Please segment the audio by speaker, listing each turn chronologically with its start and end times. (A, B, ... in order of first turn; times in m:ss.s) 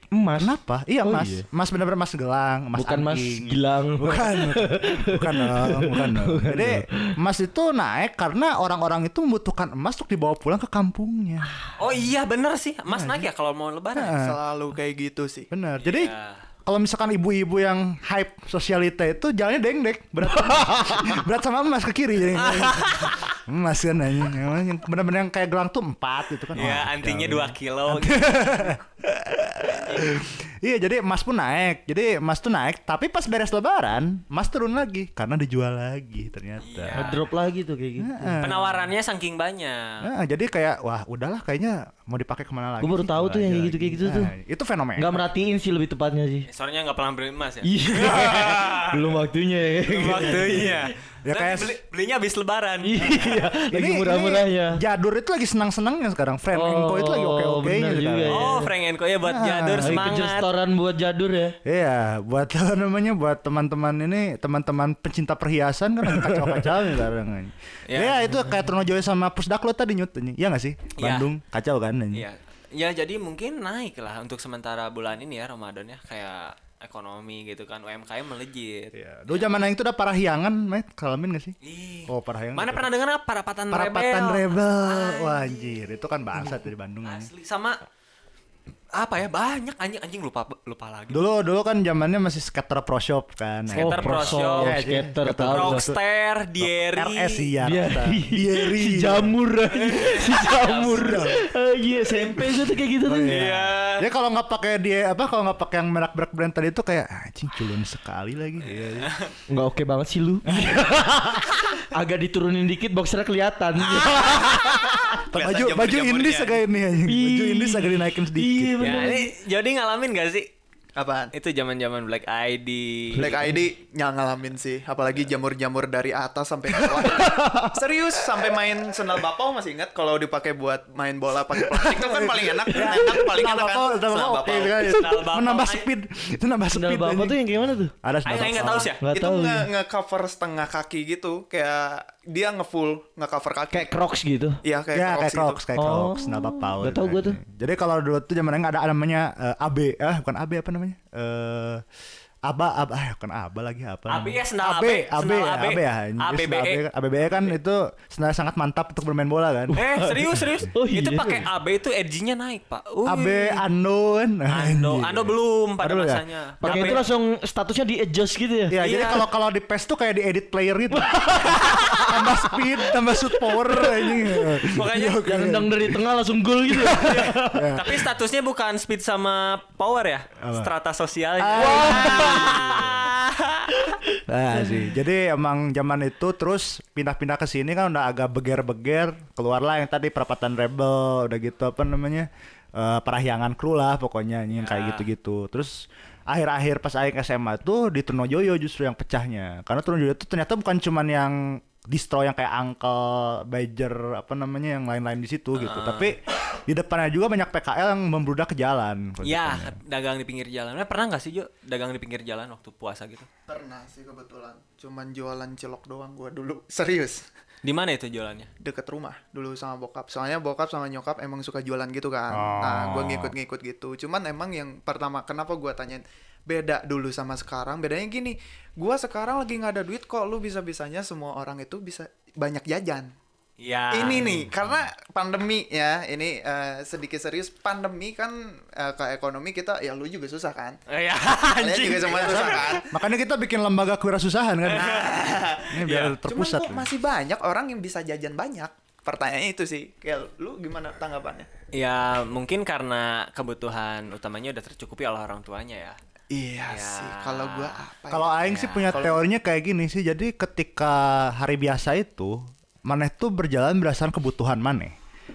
0:00.1-0:01.4 A
0:00.4-0:11.5 B
0:02.8-0:07.1 A
0:11.8-0:14.2 C
0:12.9-0:13.3 B
0:14.0-0:14.4 B
0:14.1-0:15.5 D
0:15.5-0:16.1 B
0:15.8-0:16.4 C
0:16.6-0:37.1 B
0:22.3-0:23.3 C
0:26.5-0:28.8 C
0:36.6-0:37.2 C
0:37.0-0:38.4 A
0:38.0-0:38.9 B
0:38.4-0:40.1 C
0:40.0-0:45.2 B
0:42.8-0:44.3 A
0:45.0-0:46.5 A
0:46.5-0:49.1 C
0:47.6-0:50.8 A
0:49.9-0:53.4 C
0:51.2-0:51.8 B
0:52.8-0:54.8 A
0:53.7-0:58.6 B
0:56.5-0:58.7 A
0:58.3-1:00.5 C
0:59.2-1:00.1 B
0:59.8-1:01.6 A
1:01.6-1:12.2 B
1:06.1-1:06.6 A
1:07.9-1:08.3 C
1:11.0-1:11.3 C
1:12.1-1:19.5 C
1:18.9-1:21.6 B
1:21.6-1:25.6 C
1:22.1-1:22.9 B
1:23.7-1:27.3 B
1:27.0-1:27.8 C
1:29.0-1:31.2 C
1:31.1-1:36.0 B
1:33.7-1:37.5 C
1:33.8-1:35.8 A
1:36.6-1:39.3 B
1:37.6-1:43.4 A
1:39.7-1:41.3 C
1:40.4-1:41.4 B
1:43.0-1:49.1 B
1:43.3-1:44.0 C
1:48.7-1:49.3 C
1:49.5-1:54.6 A
1:50.5-1:50.9 B
1:54.2-1:54.6 D
1:54.3-1:54.8 B
1:55.3-1:56.6 D
1:55.3-1:59.1 B
1:57.1-1:59.3 A
1:58.8-2:00.4 C
2:01.0-2:01.3 D
2:01.3-2:03.3 C
2:03.2-2:03.6 A
2:03.2-2:14.7 D
2:07.2-2:07.7 A
2:11.6-2:17.4 B
2:14.4-2:15.9 C
2:16.7-2:17.9 A
2:18.0-2:18.9 B
2:18.2-2:19.0 C
2:19.0-2:19.7 A
2:19.1-2:23.9 D
2:23.7-2:24.6 A
2:24.6-2:25.6 D
2:24.9-2:31.8 B
2:25.8-2:27.4 A
2:32.4-2:39.8 B
2:34.1-2:37.6 C
2:39.7-2:43.6 C
2:39.8-2:41.4 A
2:43.0-2:47.0 B
2:44.5-2:47.0 C
2:46.6-2:48.8 A
2:48.7-2:56.0 B
2:48.8-2:49.2 C
2:50.9-2:54.5 A
2:54.7-2:55.3 C
2:55.2-2:57.7 A
2:56.7-2:58.1 B
2:57.0-3:03.7 C
3:00.4-3:00.7 B
3:01.4-3:03.1 B
3:01.6-3:02.8 A
3:04.3-3:29.8 B
3:14.5-3:15.0 C
3:25.6-3:26.1 C
3:29.2-3:33.3 C
3:33.5-3:37.3 D
3:37.6-3:38.5 C
3:38.6-3:53.1 D
3:42.3-3:43.3 B
3:53.6-3:54.4 C
3:53.9-4:00.8 D
4:00.9-4:02.7 C
4:01.6-4:02.9 D
4:02.1-4:05.0 B
4:04.6-4:06.2 C
4:04.9-4:05.5 D
4:05.7-4:06.9 B
4:06.2-4:11.5 D
4:11.7-4:16.0 C
4:16.3-4:18.3 D
4:16.7-4:17.8 C
4:18.1-4:24.9 B
4:18.4-4:19.1 C
4:18.9-4:19.2 D